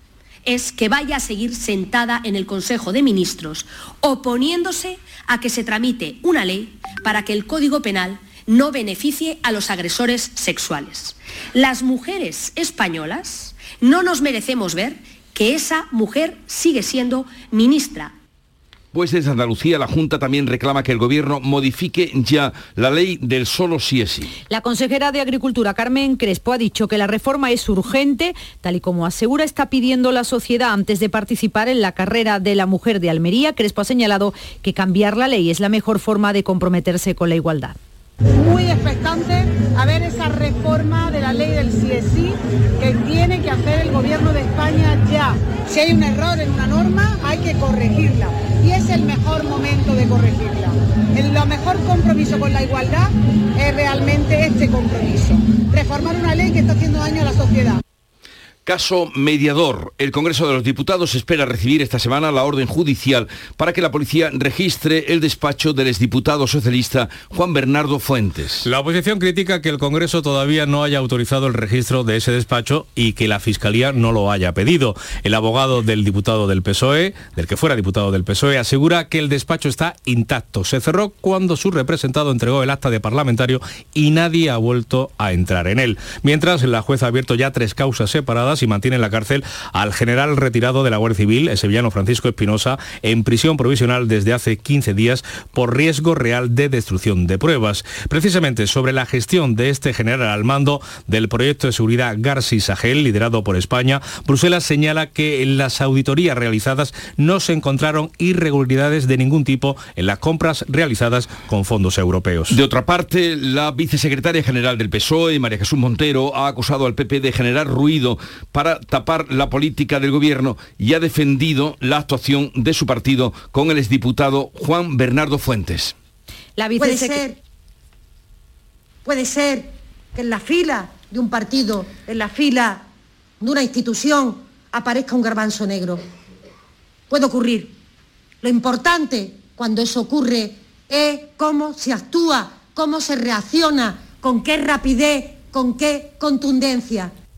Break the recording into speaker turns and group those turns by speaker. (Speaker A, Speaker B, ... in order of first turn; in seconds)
Speaker A: 0.5-18.1
Speaker B: 18.9-24.3, 58.6-68.6, 112.5-125.9
Speaker C: 24.5-37.8, 126.6-127.2
Speaker D: 38.4-57.8
Speaker E: 68.6-112.6
Speaker F: 126.8-127.4, 129.0-132.8, 133.4-136.0, 137.1-137.7, 138.4-147.1